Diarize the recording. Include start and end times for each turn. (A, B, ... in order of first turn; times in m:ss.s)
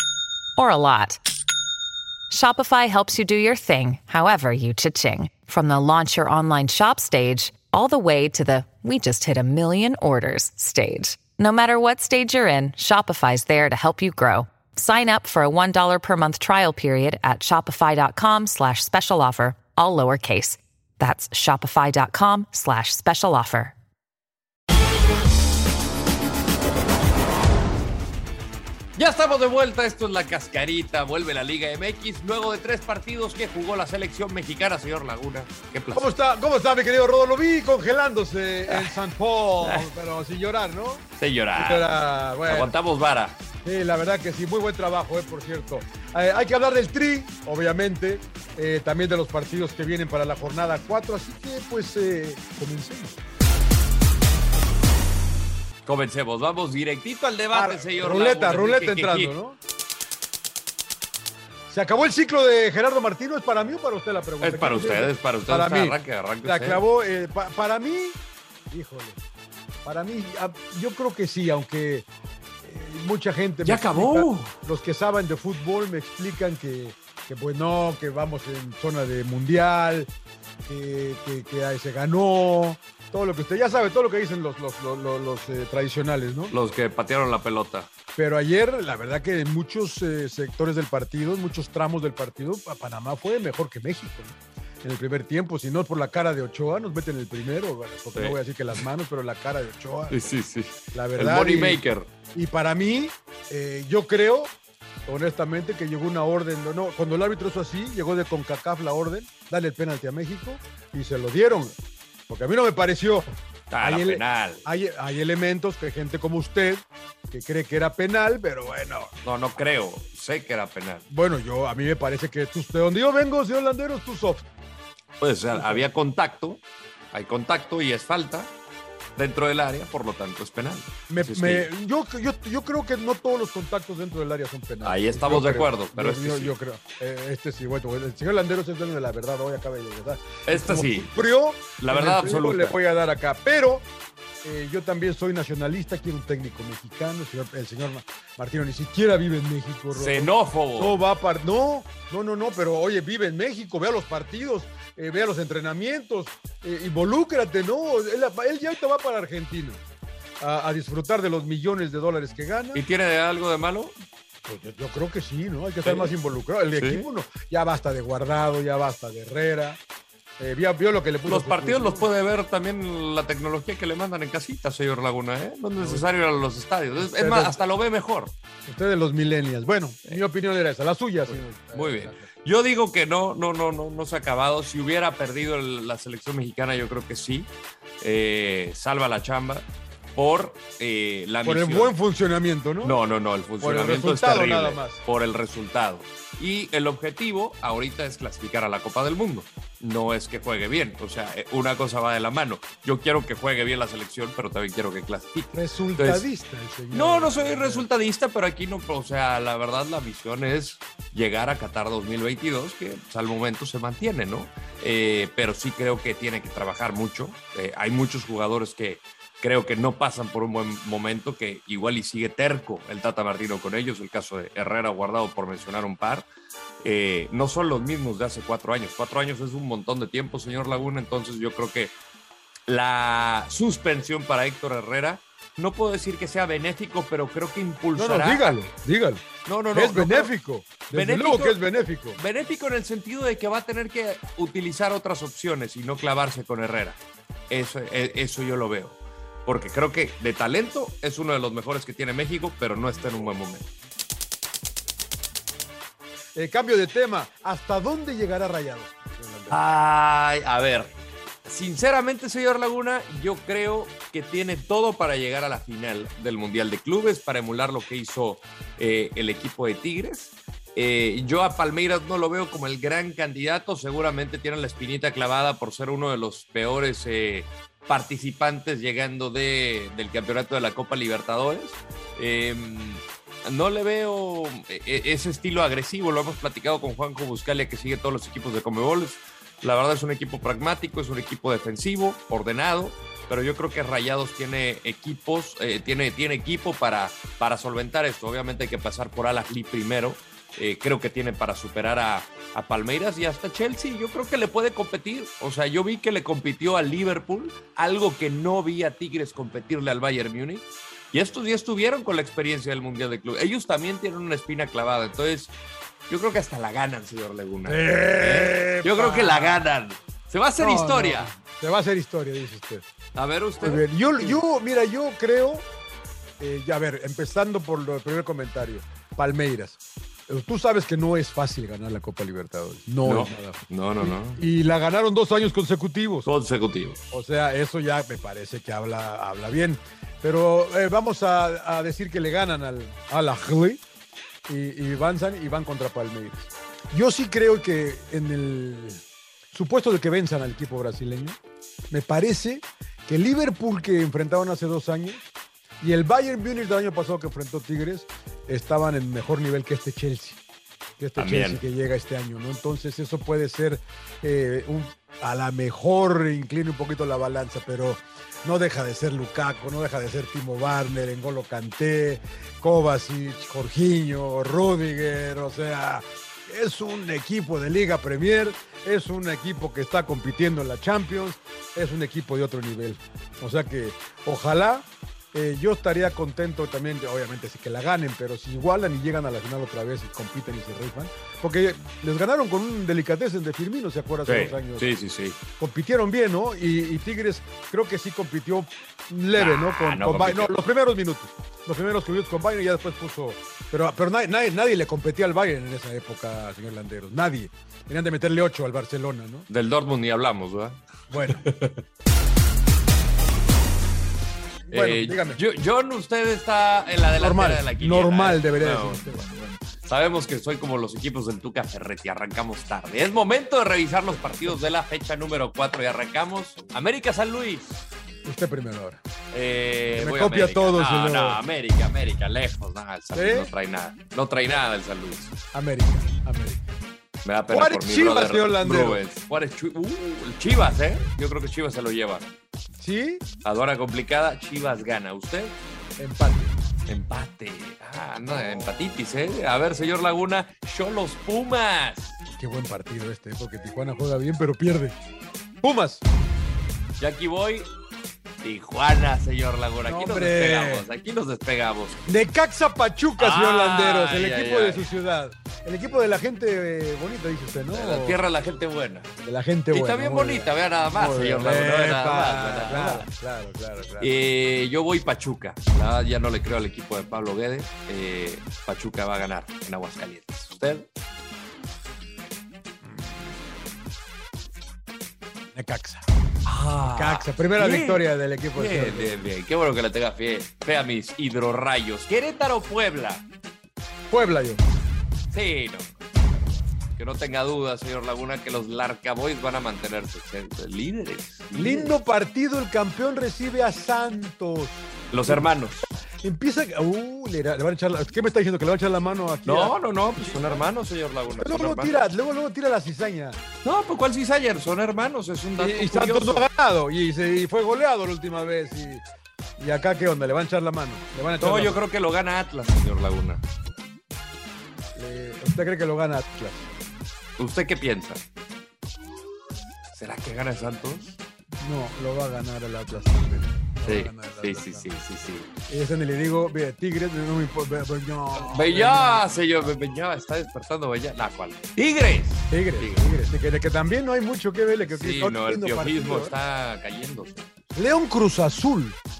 0:00.6-0:01.2 A
0:02.3-0:23.7 A
0:29.0-0:36.1 B
0:35.9-0:42.8 C
0:38.7-0:39.0 B
0:39.6-0:39.9 B
0:41.2-0:41.9 B
0:42.5-0:43.4 B
0:43.6-0:53.2 C
0:55.8-0:59.3 B
0:57.5-0:59.6 C
1:01.7-1:08.2 C
1:04.4-1:06.8 B
1:08.7-1:09.2 C
1:09.8-1:12.1 C
1:12.6-1:20.1 C
1:13.6-1:14.5 B
1:20.6-1:26.6 C
1:26.5-1:27.9 B
1:28.1-1:40.3 C
1:40.1-1:42.1 B
1:40.9-1:44.5 C
1:45.0-1:51.8 C
1:52.3-1:59.1 C
1:53.7-1:54.6 B
1:59.2-2:01.0 B
2:01.1-2:04.4 C
2:05.2-2:08.5 B
2:05.5-2:05.8 C
2:09.2-2:11.7 B
2:11.1-2:23.8 C
2:14.8-2:16.5 B
2:20.4-2:21.1 B
2:21.8-2:22.8 B
2:24.4-2:39.8 C
2:29.9-2:31.0 B
2:40.4-2:42.8 C
2:42.7-2:44.0 B
2:44.4-2:49.8 C
2:45.8-2:46.1 B
2:46.8-2:47.1 B
2:50.4-2:52.1 C
2:51.2-2:58.3 B
2:55.8-2:56.1 C
2:57.0-2:57.6 C
2:58.7-3:02.3 C
3:01.3-3:12.0 B
3:11.4-3:13.0 C
3:12.8-3:26.3 B
3:13.6-3:15.0 C
3:25.5-3:27.8 C
3:26.9-3:46.2 B
3:46.8-3:51.9 B
3:52.7-3:58.7 B
3:57.9-4:02.2 C
3:59.4-4:00.3 B
4:00.9-4:07.0 B
4:07.5-4:13.7 B
4:16.3-4:19.6 C
4:19.5-4:20.9 B
4:21.4-5:15.5 B
5:16.1-5:21.3 B
5:17.6-5:19.6 C
5:20.6-5:22.8 C
5:23.1-5:24.4 B
5:23.6-5:25.7 C
5:26.4-5:36.3 C
5:33.0-5:34.4 B
5:36.2-5:37.2 B
5:37.1-5:43.8 C
5:44.5-5:51.4 C
5:51.9-6:00.4 C
6:01.0-6:34.9 C
6:01.2-6:01.6 B
6:34.2-6:35.4 B
6:35.6-6:49.5 C
6:39.3-6:40.5 B
6:49.5-6:51.8 B
6:51.1-6:51.4 C
6:54.7-6:55.4 C
6:54.7-7:07.8 B
6:57.2-6:59.2 C
7:08.2-7:09.0 C
7:09.3-7:15.3 B
7:09.9-7:11.4 C
7:13.1-7:13.5 C
7:15.5-7:16.6 C
7:17.2-7:22.3 B
7:17.5-7:19.0 C
7:22.8-7:23.2 C
7:23.4-7:25.6 B
7:26.0-7:26.6 C
7:26.9-7:32.2 B
7:28.4-7:28.9 C
7:32.3-7:35.0 C
7:35.6-7:36.0 C
7:37.0-7:37.7 B
7:38.4-7:42.0 B
7:39.8-7:40.9 C
7:42.1-7:48.2 C
7:43.2-7:44.9 B
7:47.7-7:49.1 B
7:49.2-7:54.1 C
7:49.7-7:53.1 B
7:54.0-8:00.9 B
8:02.8-8:03.3 C
8:05.6-8:06.1 C
8:06.4-8:13.2 B
8:06.8-8:09.2 C
8:14.1-8:14.6 C
8:15.3-8:16.0 B
8:16.9-8:22.0 B
8:21.5-8:25.5 C
8:25.1-8:25.9 B
8:26.2-8:30.6 C
8:29.4-8:32.0 B
8:31.4-8:33.4 C
8:33.6-8:36.5 B
8:35.6-8:39.0 C
8:39.6-8:41.8 C
8:41.4-8:43.4 B
8:45.0-8:46.7 C
8:47.4-8:48.2 B
8:49.9-8:51.2 B
8:51.6-8:54.9 C
8:53.8-8:55.5 B
8:55.7-8:59.3 C
8:58.4-9:03.2 B
9:02.5-9:06.3 C
9:04.9-9:07.5 B
9:07.7-9:09.0 C